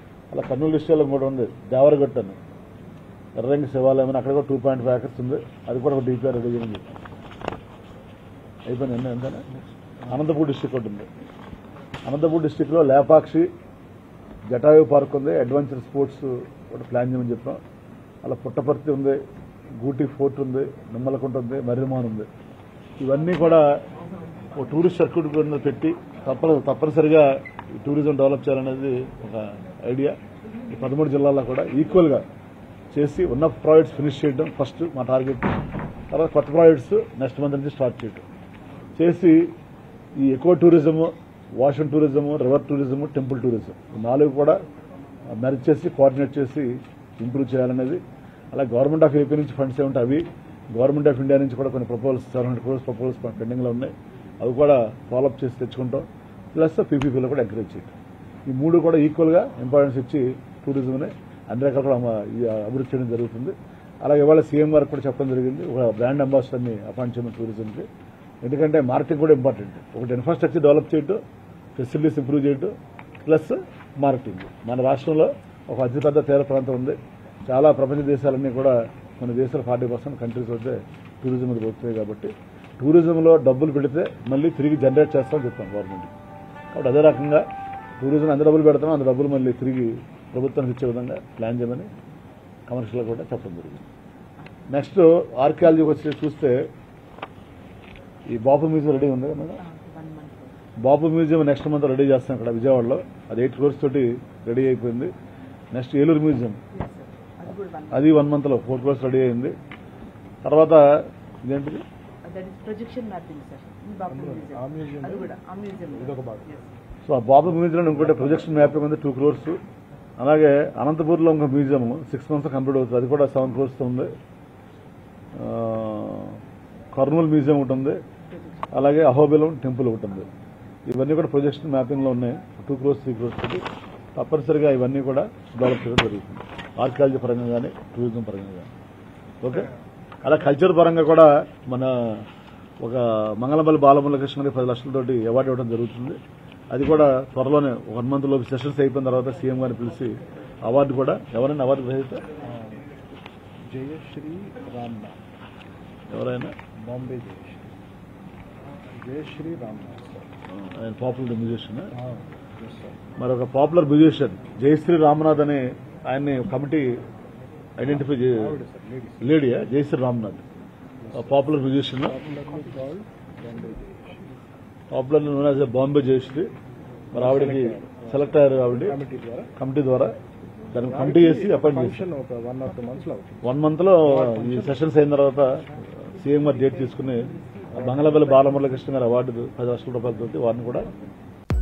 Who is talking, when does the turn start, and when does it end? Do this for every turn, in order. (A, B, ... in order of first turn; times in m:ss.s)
0:00.3-0:02.4 A
0:03.4-0:06.9 A
0:08.7-0:09.4 A
0:10.1-0:11.1 A
0:12.0-0:13.5 A
0:14.5-0:17.6 A
0:18.2-0:19.2 A
0:19.8-0:22.3 A
0:23.0-0:23.6 A
0:24.5-0:30.2 A
0:30.7-0:32.2 A
0:32.9-0:35.5 A
0:36.1-0:38.2 A
0:39.0-0:39.5 A
0:40.2-0:44.6 A
0:45.3-0:48.0 A
0:48.5-0:57.9 A
0:58.5-1:07.9 A
1:08.4-1:11.2 A
1:11.7-1:12.7 A
1:13.2-1:26.1 A
1:26.7-1:27.4 A
1:28.0-1:31.9 A
1:32.7-1:33.8 A
1:34.7-1:36.6 A
1:38.3-1:39.6 A
1:39.6-1:40.5 B
1:40.8-1:45.1 A
1:45.7-1:46.6 A
1:46.7-1:48.2 B
1:47.9-1:49.5 A
1:50.4-1:50.8 A
1:51.4-1:51.8 A
1:52.2-1:56.6 B
1:54.1-1:55.3 C
1:55.9-1:56.5 C
1:57.0-1:59.6 A
1:57.9-1:58.8 C
2:00.2-2:04.1 A
2:05.4-2:06.4 A
2:06.9-2:08.0 A
2:08.4-2:08.7 B
2:08.7-2:10.3 A
2:10.9-2:13.6 A
2:14.1-2:18.7 A
2:19.4-2:19.7 A
2:20.2-2:22.2 A
2:22.8-2:26.2 A
2:26.7-2:32.2 A
2:32.4-2:32.8 C
2:33.7-2:35.2 C
2:36.1-2:36.5 A
2:36.8-2:37.7 C
2:39.0-2:40.3 C
2:40.5-2:41.9 A
2:41.9-2:43.0 C
2:43.2-2:46.9 A
2:47.8-2:48.6 A
2:47.8-2:49.3 C
2:49.2-2:50.5 A
2:51.0-2:54.2 C
2:51.1-2:52.2 A
2:54.9-2:56.5 A
2:57.1-2:59.0 A
2:57.1-2:59.5 C
2:59.6-3:00.1 A
3:00.7-3:02.0 A
3:00.8-3:03.4 C
3:03.4-3:05.5 A
3:04.0-3:04.8 C
3:06.1-3:10.9 A
3:07.7-3:08.6 C